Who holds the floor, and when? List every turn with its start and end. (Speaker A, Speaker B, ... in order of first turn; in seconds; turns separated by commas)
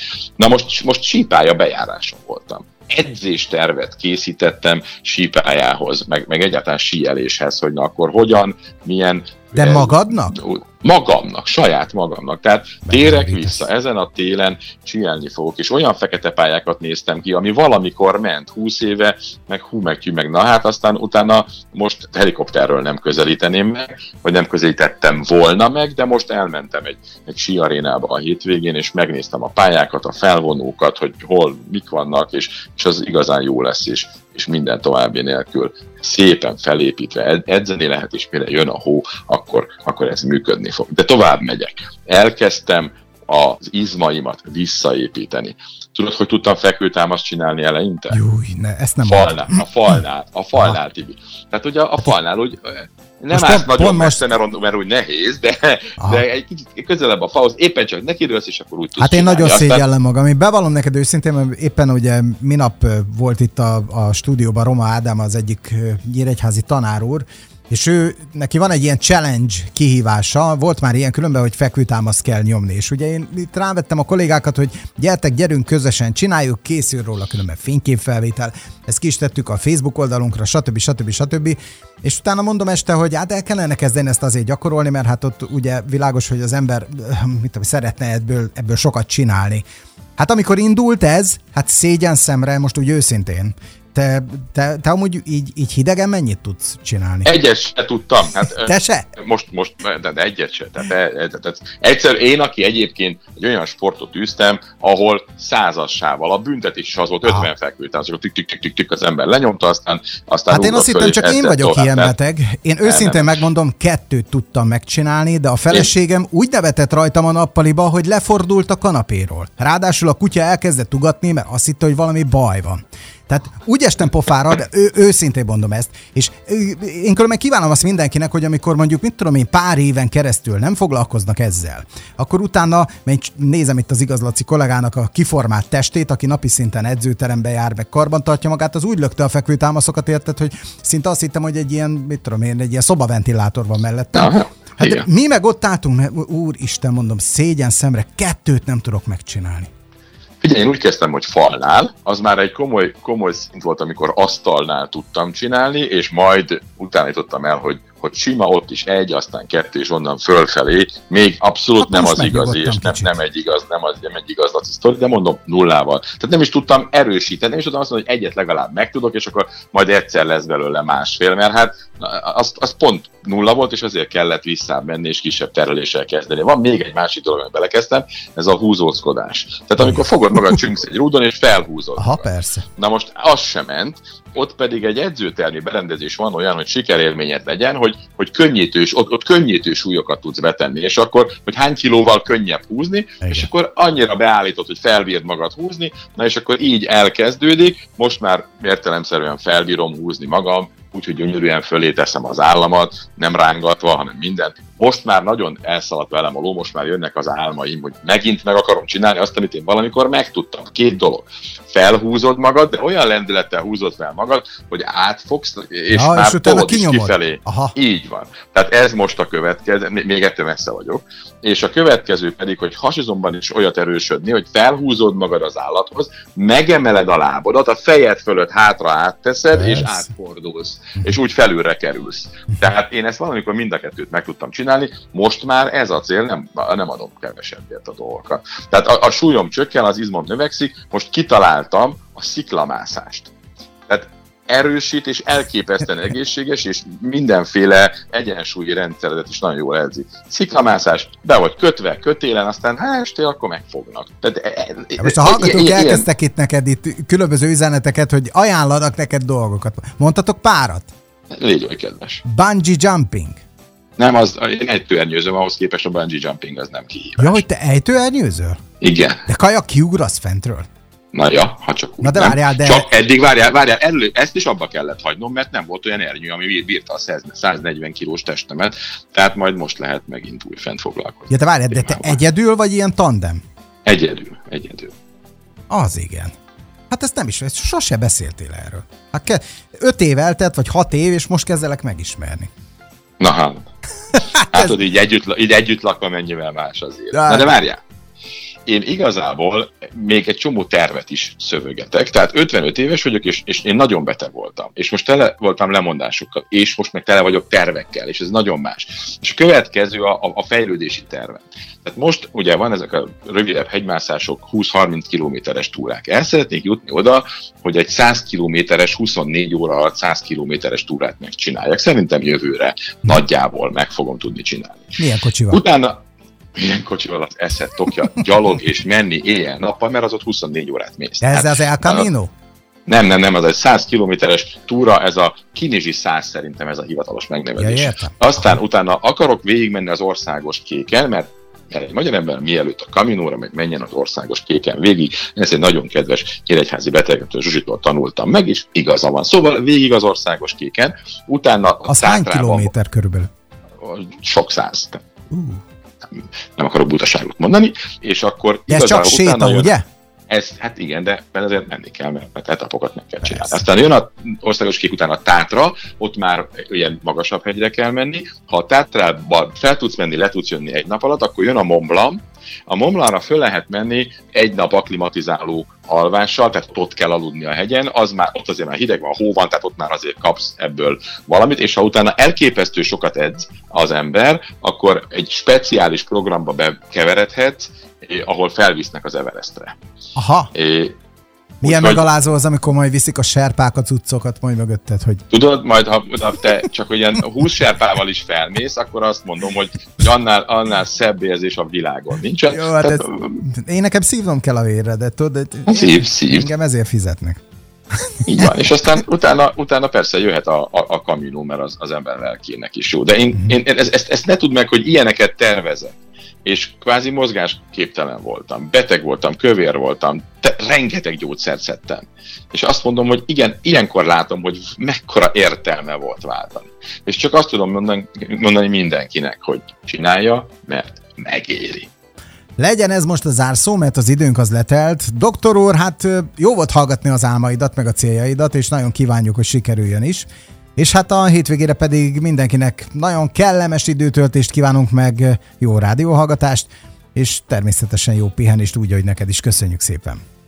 Speaker A: 0.4-48.2, Speaker B: 9.5-10.3, Speaker B: 12.8-13.6, Speaker B: 48.1-49.6, Speaker A: 49.0-59.9, Speaker B: 53.3-54.2, Speaker B: 56.0-56.2, Speaker B: 59.0-89.6, Speaker B: 90.2-97.3, Speaker A: 97.2-112.1, Speaker B: 98.6-99.0, Speaker B: 110.5-149.7, Speaker A: 112.8-113.4, Speaker A: 144.1-145.1, Speaker A: 150.4-243.3, Speaker B: 161.8-163.1, Speaker B: 179.8-180.6, Speaker B: 182.0-182.6, Speaker B: 193.2-193.5, Speaker B: 215.9-217.7, Speaker B: 229.6-230.0, Speaker A: 243.9-256.1, Speaker B: 255.0-260.9, Speaker A: 261.3-262.2, Speaker B: 262.2-263.4, Speaker A: 264.0-267.4, Speaker B: 267.2-268.6, Speaker A: 268.8-269.3, Speaker B: 269.3-270.7, Speaker A: 271.1-282.2, Speaker B: 272.0-272.9, Speaker B: 281.3-283.4, Speaker A: 283.9-284.9, Speaker B: 285.7-286.3, Speaker B: 286.9-292.5, Speaker A: 293.2-293.7, Speaker B: 294.2-294.7, Speaker A: 294.5-297.8, Speaker B: 297.1-297.5, Speaker A: 298.6-326.0, Speaker B: 325.0-325.6, Speaker A: 326.6-332.1, Speaker B: 331.2-332.3, Speaker A: 332.9-352.7, Speaker B: 337.6-338.2, Speaker B: 351.9-353.3, Speaker A: 353.8-355.0, Speaker B: 355.3-355.6, Speaker A: 356.1-359.7, Speaker B: 358.7-359.8, Speaker A: 360.3-389.8, Speaker B: 363.2-363.6, Speaker B: 390.1-390.5, Speaker A: 390.5-390.9, Speaker A: 391.6-392.3, Speaker B: 391.6-395.2, Speaker A: 395.3-403.4, Speaker B: 402.5-407.4, Speaker A: 405.7-406.5, Speaker B: 408.2-408.5, Speaker A: 408.2-431.9, Speaker B: 432.6-450.2